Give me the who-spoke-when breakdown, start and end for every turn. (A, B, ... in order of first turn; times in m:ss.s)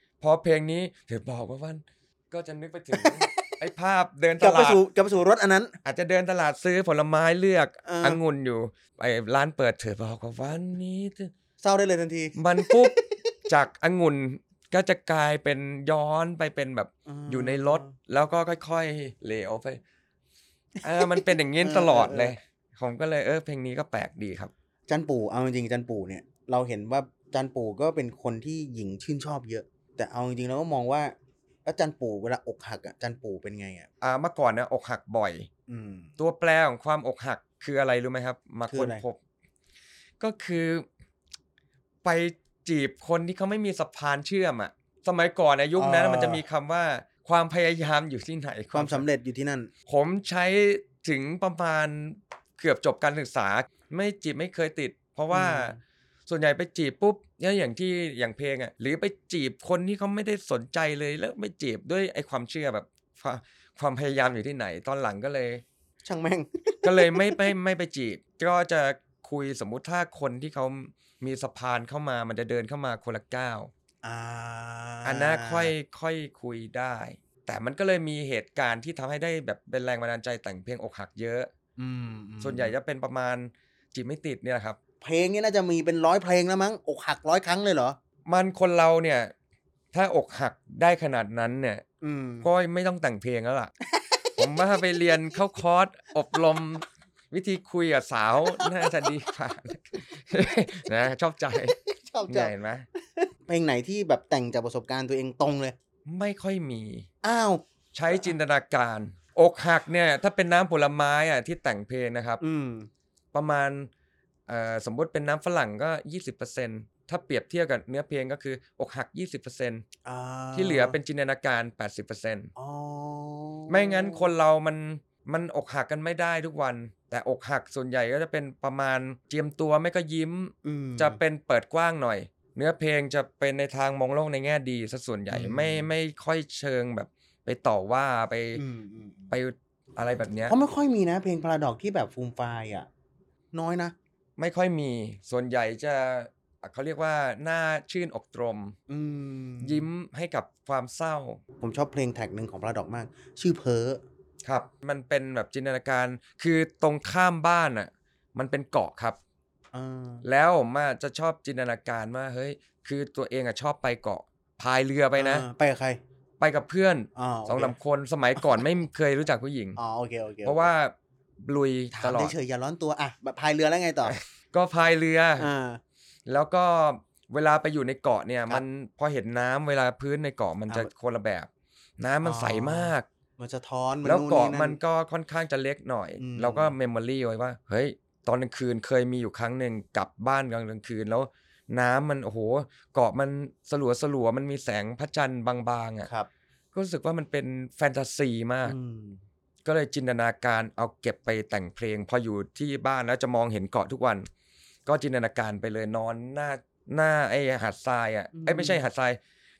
0:00.2-0:04.8 A
0:02.9-0:03.4 B
0:04.4-0:05.7 B
0:05.8-0:11.3 A
0:07.8-0:08.2 B
0:11.6-0:13.3 B
0:12.4-0:19.8 A
0:17.1-0:17.9 B
0:20.8-0:24.5 A
0:21.0-0:22.3 B
0:24.9-0:33.9 B
0:34.0-0:35.5 A
0:35.7-0:36.1 B
0:36.2-0:39.2 A
0:38.7-0:39.0 B
0:40.2-0:40.8 A
0:42.0-0:49.0 A
0:45.8-0:46.4 B
0:48.7-0:49.7 B
0:49.9-1:05.6 A
0:55.3-0:55.8 B
1:06.0-1:07.4 B
1:06.8-1:13.7 A
1:14.0-1:15.7 B
1:15.0-1:21.5 A
1:21.8-1:22.7 B
1:22.4-1:24.8 A
1:25.0-1:28.0 B
1:28.2-1:29.3 A
1:29.9-1:31.8 A
1:32.0-1:32.5 B
1:32.4-1:33.7 A
1:33.9-1:34.4 B
1:34.4-1:42.9 A
1:38.6-1:38.9 B
1:41.7-1:42.5 B
1:43.1-1:45.8 B
1:46.0-1:47.1 A
1:47.2-1:47.6 B
1:47.9-1:52.4 A
1:52.4-1:52.9 B
1:53.3-1:53.9 A
1:54.5-1:59.8 A
2:00.0-2:01.0 B
2:00.5-2:02.5 A
2:02.6-2:04.3 B
2:03.7-2:18.6 A
2:10.6-2:11.2 B
2:15.3-2:15.9 B
2:18.6-2:19.3 B
2:19.3-2:20.6 A
2:20.5-2:22.9 B
2:23.5-2:23.9 B
2:24.4-2:28.8 A
2:28.9-2:29.8 B
2:29.6-2:31.4 A
2:31.6-2:34.0 B
2:34.4-2:39.2 A
2:39.7-2:40.2 B
2:40.2-2:45.5 A
2:45.2-2:46.0 B
2:46.4-2:49.8 A
2:47.2-2:47.7 B
2:48.4-2:48.7 B
2:49.8-2:50.7 B
2:50.4-2:52.3 A
2:51.9-2:54.2 B
2:54.0-2:55.5 A
2:55.4-2:55.8 B
2:56.2-3:03.1 A
3:02.2-3:04.8 B
3:04.0-3:16.1 A
3:06.2-3:06.7 B
3:16.7-3:18.7 A
3:18.6-3:19.2 B
3:19.6-3:24.3 A
3:24.8-3:29.2 A
3:28.3-3:28.8 B